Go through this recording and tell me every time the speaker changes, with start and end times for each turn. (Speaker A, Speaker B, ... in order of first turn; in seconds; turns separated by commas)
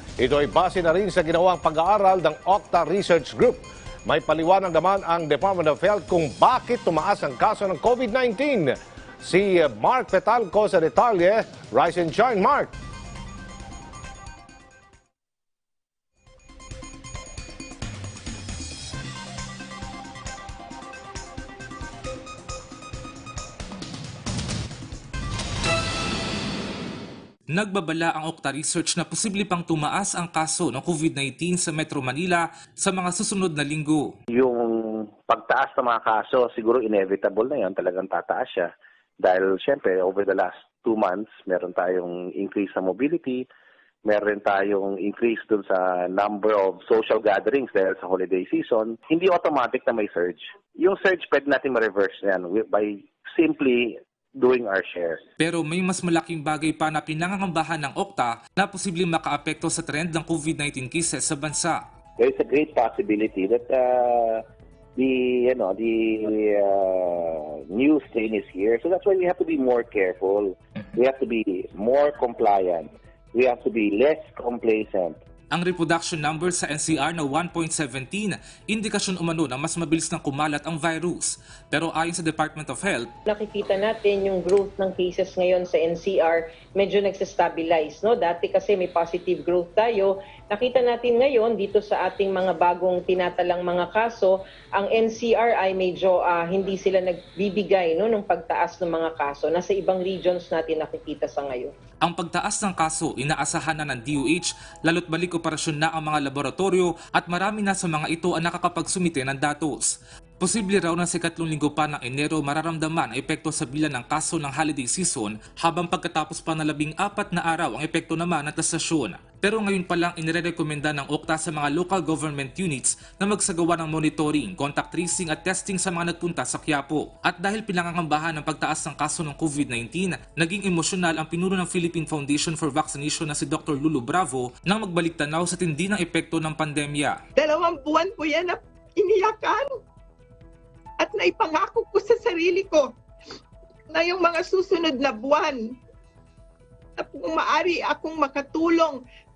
Speaker A: 0.2-12.7, Speaker B: 27.5-34.1, Speaker C: 34.4-43.5, Speaker C: 44.0-55.2, Speaker B: 55.4-61.8, Speaker C: 62.2-64.4, Speaker C: 65.0-75.2, Speaker B: 75.5-83.1, Speaker D: 83.3-101.7, Speaker B: 102.0-137.2, Speaker E: 137.4-139.7, Speaker E: 141.0-142.9, Speaker E: 143.9-145.6, Speaker E: 147.0-149.0